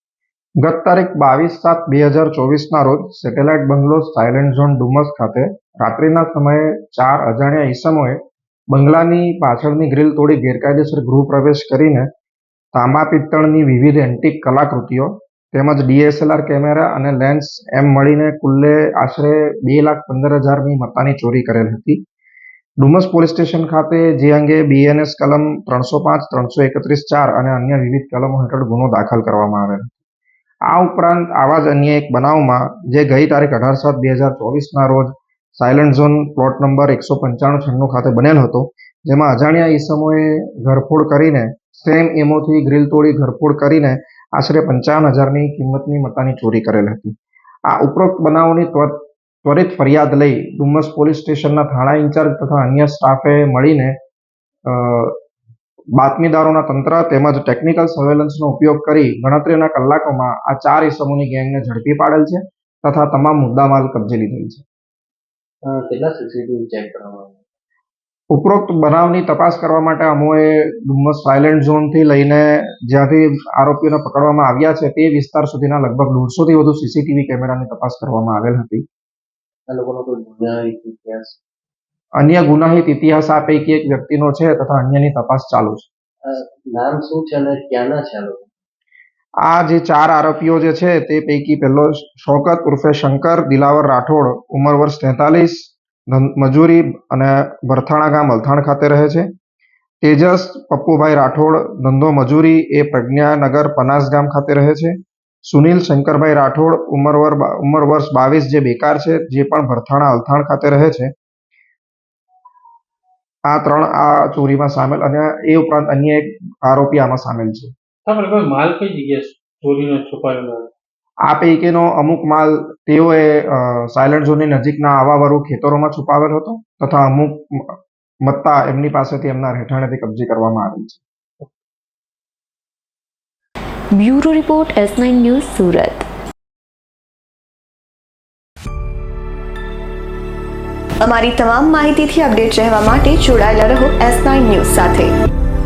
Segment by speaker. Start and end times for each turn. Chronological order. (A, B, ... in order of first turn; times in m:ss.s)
0:00.6-0:08.2 A
0:08.7-0:12.1 A
0:12.7-0:22.0 A
0:22.8-0:30.0 A
0:30.7-0:47.2 A
0:47.7-0:54.0 A
0:54.7-0:55.2 A
0:56.0-1:04.6 A
1:05.6-1:07.4 B
1:08.3-1:18.8 A
1:19.7-1:21.4 B
1:22.2-1:25.9 A
1:26.2-1:28.5 B
1:29.5-1:39.3 A
1:40.0-1:51.1 A
1:53.5-1:57.7 A
1:58.1-2:00.7 C
2:01.2-2:11.0 A
2:14.0-2:16.1 D
2:21.0-2:25.1 E